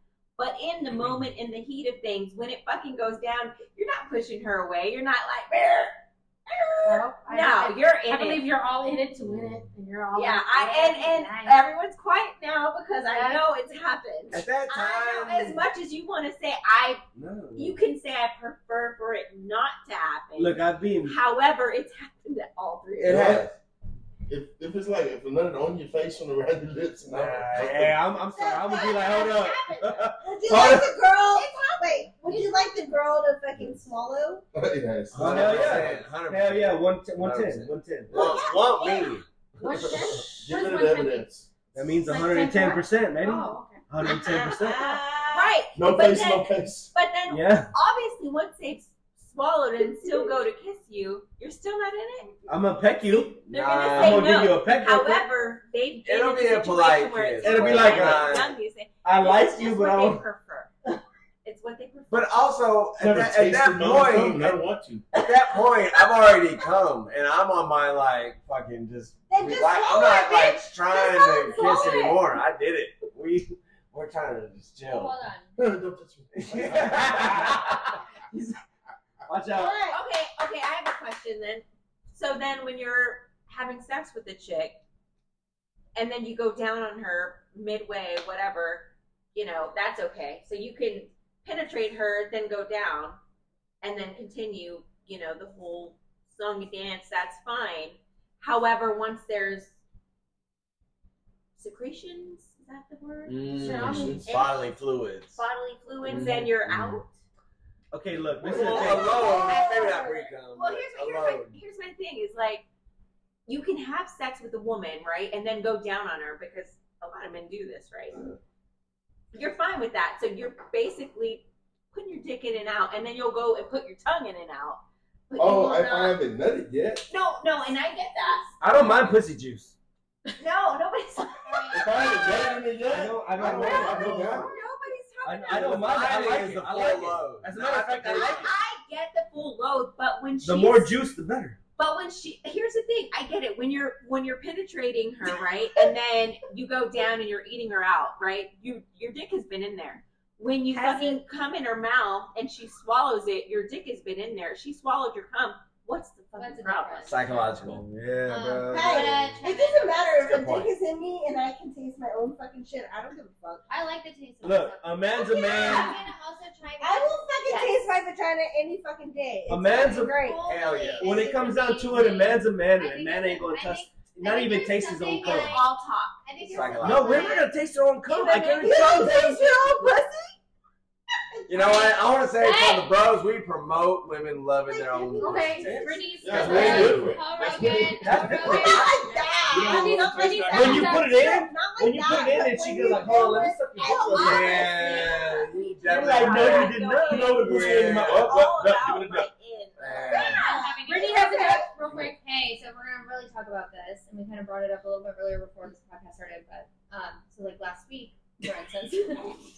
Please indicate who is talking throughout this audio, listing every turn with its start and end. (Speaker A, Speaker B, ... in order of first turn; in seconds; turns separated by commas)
Speaker A: 0.4-8.5, Speaker B: 6.8-10.5, Speaker C: 7.3-7.7, Speaker A: 10.1-17.0, Speaker C: 10.5-11.6, Speaker B: 13.1-13.4, Speaker D: 14.3-15.6, Speaker E: 17.1-17.8, Speaker A: 17.6-23.3, Speaker E: 20.4-21.2, Speaker D: 23.0-23.5, Speaker F: 23.1-23.5, Speaker F: 24.3-28.0, Speaker E: 27.1-30.9, Speaker G: 28.4-29.3, Speaker A: 28.7-29.9, Speaker G: 30.2-34.4, Speaker A: 31.4-31.7, Speaker B: 32.3-32.5, Speaker F: 34.5-36.1, Speaker D: 35.1-40.2, Speaker E: 35.1-38.3, Speaker F: 38.1-38.6, Speaker G: 38.7-39.0, Speaker B: 39.6-41.3, Speaker F: 39.8-41.5, Speaker E: 41.7-45.0, Speaker B: 41.9-43.8, Speaker A: 44.0-52.3, Speaker F: 45.7-46.9, Speaker E: 47.3-47.7, Speaker E: 52.5-55.3, Speaker D: 53.5-54.5, Speaker A: 53.5-60.7, Speaker D: 56.0-58.5, Speaker E: 57.4-58.5, Speaker E: 59.0-60.2, Speaker A: 61.4-62.5, Speaker D: 62.1-64.6, Speaker F: 63.0-65.1, Speaker D: 65.1-75.2, Speaker G: 69.3-72.2, Speaker A: 71.5-72.2, Speaker C: 74.8-75.5, Speaker F: 75.6-77.7, Speaker D: 76.3-78.0, Speaker E: 76.9-77.8, Speaker E: 79.2-79.8, Speaker G: 79.5-80.0, Speaker A: 79.9-84.8, Speaker A: 85.9-93.2, Speaker A: 93.8-99.8, Speaker A: 101.5-104.7, Speaker D: 103.2-105.4, Speaker B: 103.5-104.3, Speaker F: 103.7-104.3, Speaker A: 105.3-107.2, Speaker D: 106.0-107.0, Speaker E: 107.9-109.3, Speaker F: 108.4-109.4, Speaker D: 108.4-111.6, Speaker A: 108.6-112.7, Speaker A: 113.5-118.3, Speaker A: 119.3-126.2, Speaker F: 125.3-127.0, Speaker A: 127.1-128.5, Speaker E: 128.6-129.7, Speaker A: 130.4-132.6, Speaker C: 131.4-132.2, Speaker F: 131.7-134.6, Speaker E: 132.8-134.5, Speaker A: 134.4-136.8, Speaker E: 135.2-138.5, Speaker D: 135.5-138.5, Speaker A: 138.0-141.0, Speaker E: 140.4-141.6, Speaker A: 141.8-157.4, Speaker G: 150.7-151.2, Speaker C: 156.4-157.2, Speaker D: 157.1-157.9, Speaker E: 157.6-159.2, Speaker C: 158.3-160.0, Speaker D: 158.7-159.4, Speaker G: 158.7-163.7, Speaker D: 160.1-160.7, Speaker C: 163.7-167.7, Speaker E: 164.4-165.9, Speaker G: 165.4-166.0, Speaker G: 166.8-170.4, Speaker E: 169.5-170.2, Speaker C: 169.8-175.7, Speaker D: 170.4-171.1, Speaker E: 171.0-175.6, Speaker A: 175.3-176.2, Speaker C: 176.2-177.5, Speaker G: 176.5-177.3, Speaker D: 176.5-177.3, Speaker E: 176.8-179.5, Speaker A: 178.1-178.9, Speaker G: 178.6-180.3, Speaker G: 181.3-182.2, Speaker D: 181.5-187.1, Speaker G: 184.8-185.4, Speaker B: 185.1-187.1, Speaker E: 185.6-188.9, Speaker F: 186.2-188.7, Speaker C: 186.3-189.1, Speaker G: 188.4-195.3, Speaker A: 188.9-189.4, Speaker F: 189.5-191.1, Speaker B: 189.5-191.2, Speaker E: 190.5-194.7, Speaker D: 194.1-196.8, Speaker A: 194.1-200.9, Speaker E: 195.8-198.3, Speaker F: 197.0-199.3, Speaker D: 197.3-198.4, Speaker D: 199.8-200.4, Speaker G: 200.1-201.7, Speaker C: 200.3-209.3, Speaker B: 200.8-202.1